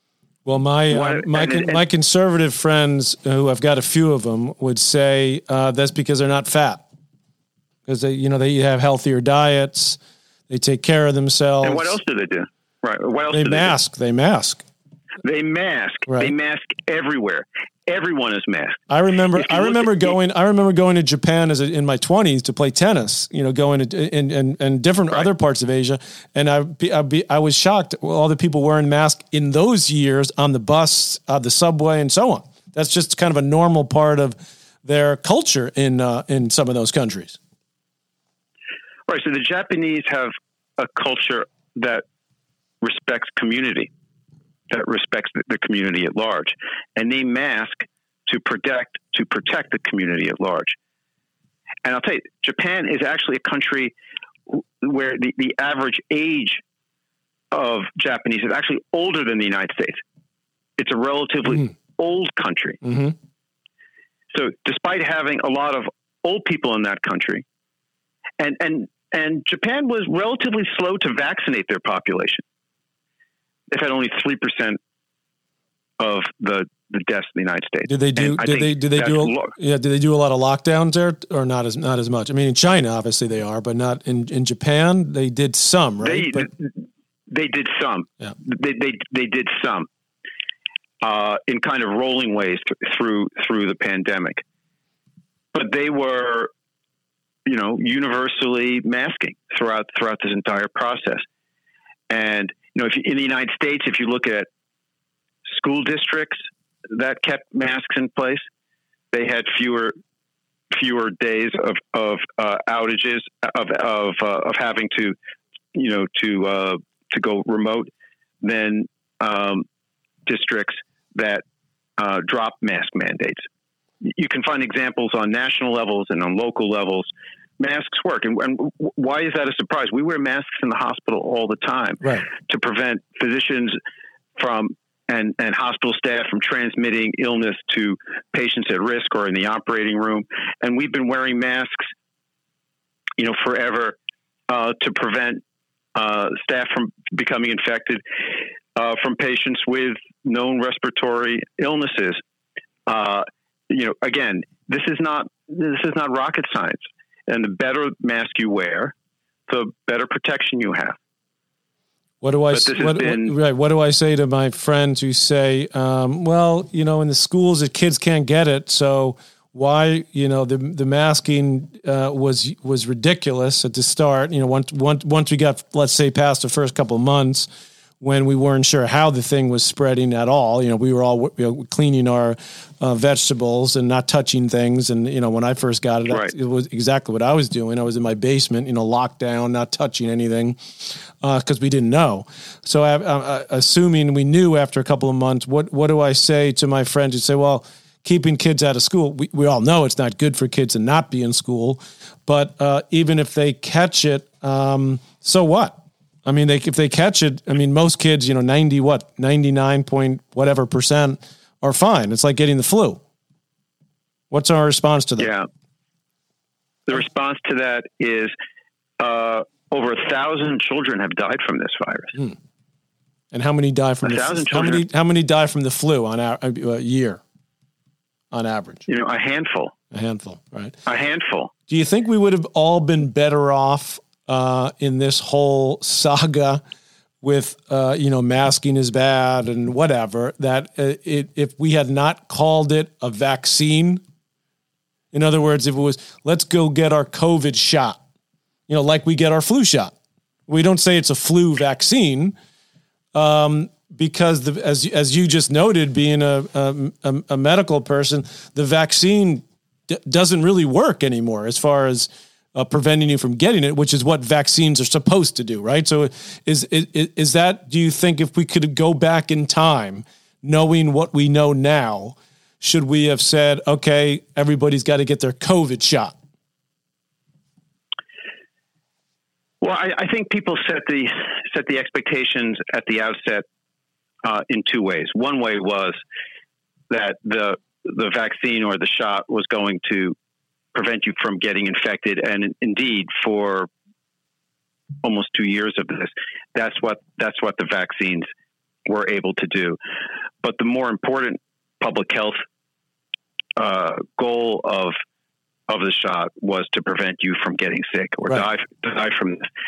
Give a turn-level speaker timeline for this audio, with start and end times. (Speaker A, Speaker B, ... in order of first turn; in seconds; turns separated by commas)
Speaker A: 0.5-6.8, Speaker B: 0.9-1.8, Speaker A: 7.9-11.9, Speaker B: 11.6-13.8, Speaker A: 13.3-14.6, Speaker B: 15.2-18.8, Speaker A: 18.9-37.4, Speaker B: 19.3-20.1, Speaker B: 39.1-42.0, Speaker B: 42.8-43.9, Speaker B: 44.7-50.8, Speaker B: 51.9-53.9, Speaker B: 54.5-56.6, Speaker B: 57.5-60.0, Speaker B: 60.8-62.8, Speaker A: 62.8-63.1, Speaker B: 64.3-67.4, Speaker B: 68.4-72.4, Speaker B: 73.7-74.8, Speaker B: 76.0-79.5, Speaker A: 77.9-86.5, Speaker B: 86.0-89.9, Speaker B: 91.0-94.4, Speaker B: 95.5-96.5, Speaker B: 97.5-101.2, Speaker B: 102.1-104.5, Speaker B: 105.5-108.4, Speaker B: 109.1-109.9, Speaker B: 110.7-115.2, Speaker B: 115.7-117.9, Speaker B: 118.4-119.7, Speaker B: 120.3-121.4, Speaker B: 122.0-123.4, Speaker B: 124.0-127.1, Speaker B: 127.6-133.8, Speaker B: 134.4-141.9, Speaker B: 143.2-144.0, Speaker B: 144.5-145.4, Speaker B: 145.9-148.0, Speaker B: 148.8-152.2, Speaker B: 152.9-158.9, Speaker B: 159.5-161.0, Speaker A: 162.2-177.5, Speaker B: 162.5-163.3, Speaker A: 178.0-213.0, Speaker A: 214.3-215.3, Speaker B: 215.2-215.5, Speaker B: 216.9-218.3, Speaker B: 219.0-222.2, Speaker A: 223.3-227.2, Speaker B: 224.0-224.8, Speaker A: 228.3-228.9, Speaker B: 228.9-229.8, Speaker A: 229.9-230.8, Speaker B: 230.9-231.5, Speaker A: 231.7-236.6, Speaker A: 237.2-244.0, Speaker A: 245.1-248.0, Speaker A: 248.7-249.9, Speaker A: 250.5-252.3, Speaker A: 253.1-276.2, Speaker B: 279.6-283.4, Speaker B: 284.2-286.0, Speaker B: 286.9-290.2, Speaker B: 290.7-293.7, Speaker B: 295.0-298.3, Speaker B: 298.9-299.8, Speaker B: 300.4-302.4, Speaker B: 303.6-305.0, Speaker B: 305.7-309.5